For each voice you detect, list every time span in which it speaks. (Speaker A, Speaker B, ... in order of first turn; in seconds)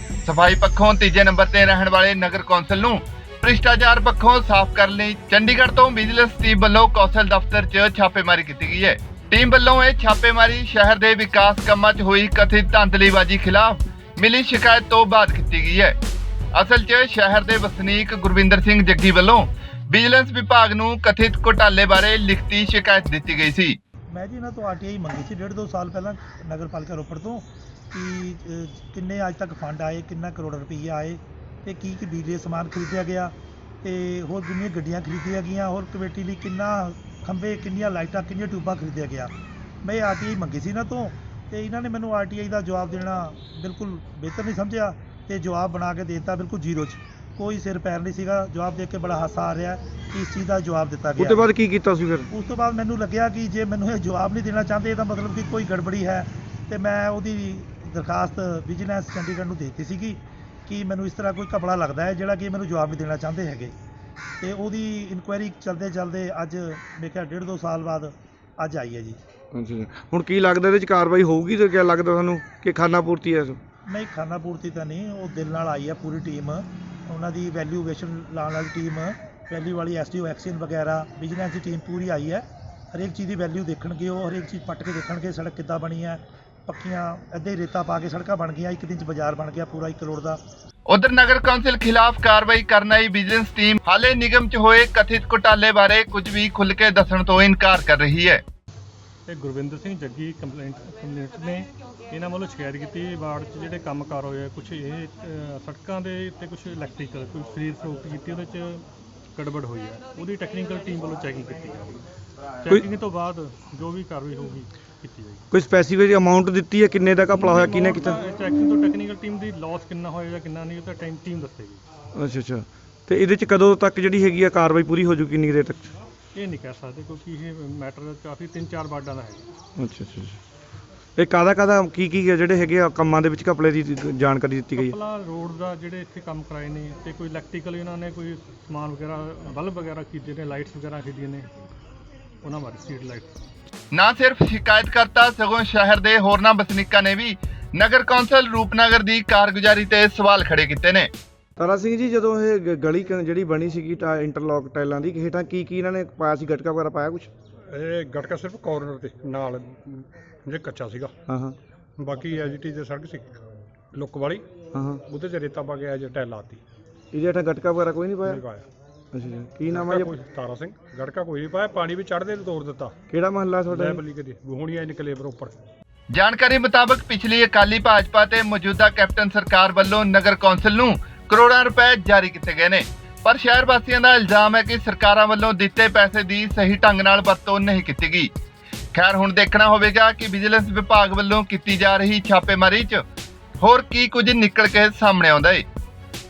Speaker A: 0.2-15.9, 16.5-23.8, 90.9-98.4, 143.9-151.1, 176.1-188.3, 188.9-193.0, 193.6-195.6
Speaker B: 24.1-39.3, 39.8-51.5, 52.3-63.7, 64.4-69.2, 73.9-90.4
Speaker C: 51.2-52.3, 69.5-73.6, 115.5-118.2, 122.1-125.9, 129.8-130.4, 131.2-134.9, 151.6-157.3, 161.3-161.6, 164.7-165.0, 167.1-168.4, 169.1-170.1, 173.1-174.0
Speaker D: 99.3-108.8, 109.3-112.0, 112.6-115.4, 117.4-121.8, 126.3-129.4, 134.7-141.5, 142.4-143.4
Speaker E: 157.7-161.1, 162.0-163.4, 163.9-164.4, 165.1-166.6, 168.2-168.7, 169.7-172.9, 173.7-175.6